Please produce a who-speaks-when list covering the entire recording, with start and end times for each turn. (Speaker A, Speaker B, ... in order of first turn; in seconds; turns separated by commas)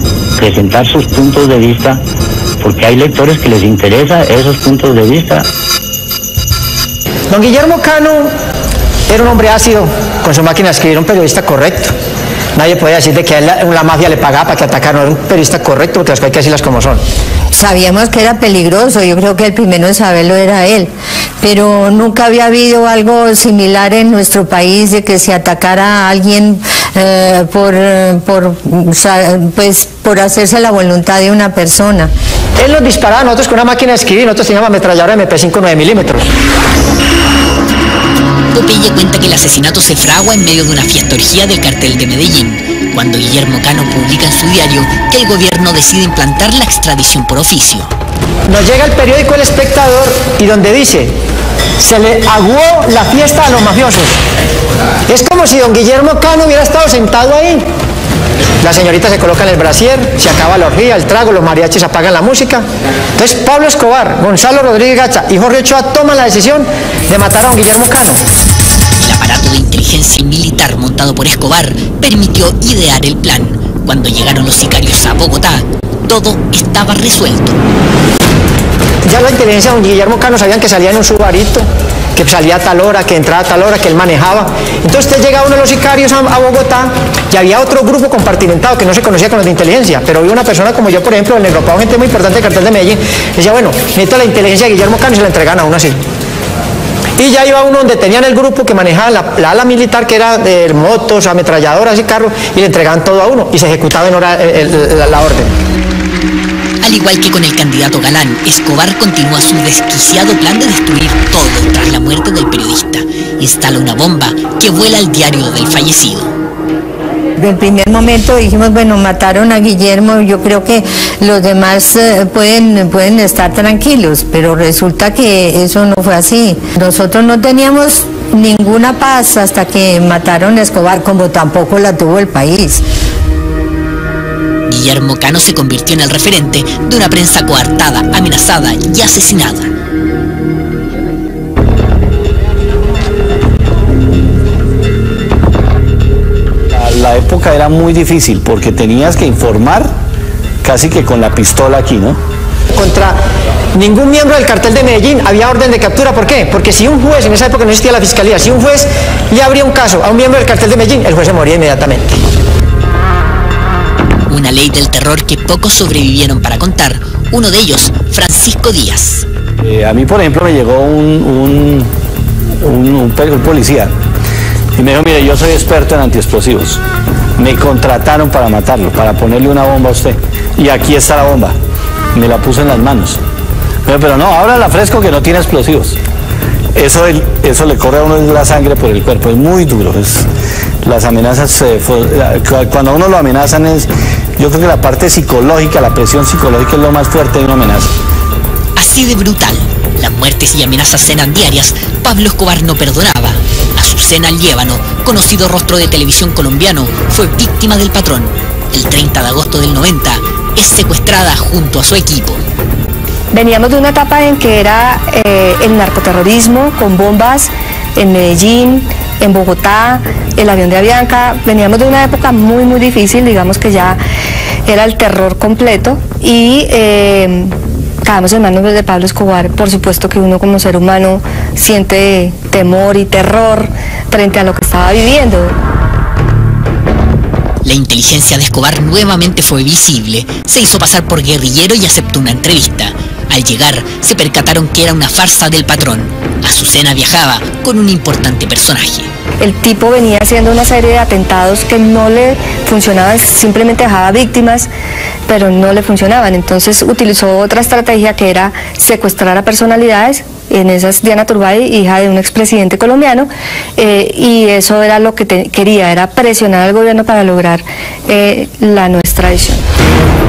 Speaker A: 0.4-2.0, Speaker A: 2.6-5.5, Speaker B: 7.3-8.3, Speaker B: 9.1-11.9, Speaker B: 12.5-17.0, Speaker C: 17.5-32.1, Speaker B: 32.6-36.3, Speaker D: 38.5-47.9, Speaker B: 48.5-51.1, Speaker B: 51.8-54.2, Speaker B: 55.1-57.7, Speaker B: 58.6-62.6, Speaker B: 63.2-68.2, Speaker D: 69.0-77.6, Speaker B: 79.0-96.0, Speaker B: 97.2-105.5, Speaker D: 106.8-116.3, Speaker C: 117.4-132.8, Speaker D: 134.7-139.7, Speaker E: 146.7-149.9, Speaker E: 150.6-152.2, Speaker B: 152.7-153.2, Speaker B: 153.7-162.2, Speaker D: 164.3-169.2, Speaker E: 169.6-171.9, Speaker E: 172.6-173.9, Speaker E: 174.8-176.8, Speaker E: 177.4-181.6, Speaker E: 182.1-183.2, Speaker E: 183.8-185.9, Speaker E: 186.7-190.2, Speaker E: 190.8-197.9, Speaker D: 198.8-212.4, Speaker F: 213.3-224.0, Speaker F: 224.7-235.6, Speaker D: 237.6-249.1, Speaker F: 249.4-254.7, Speaker F: 255.3-269.6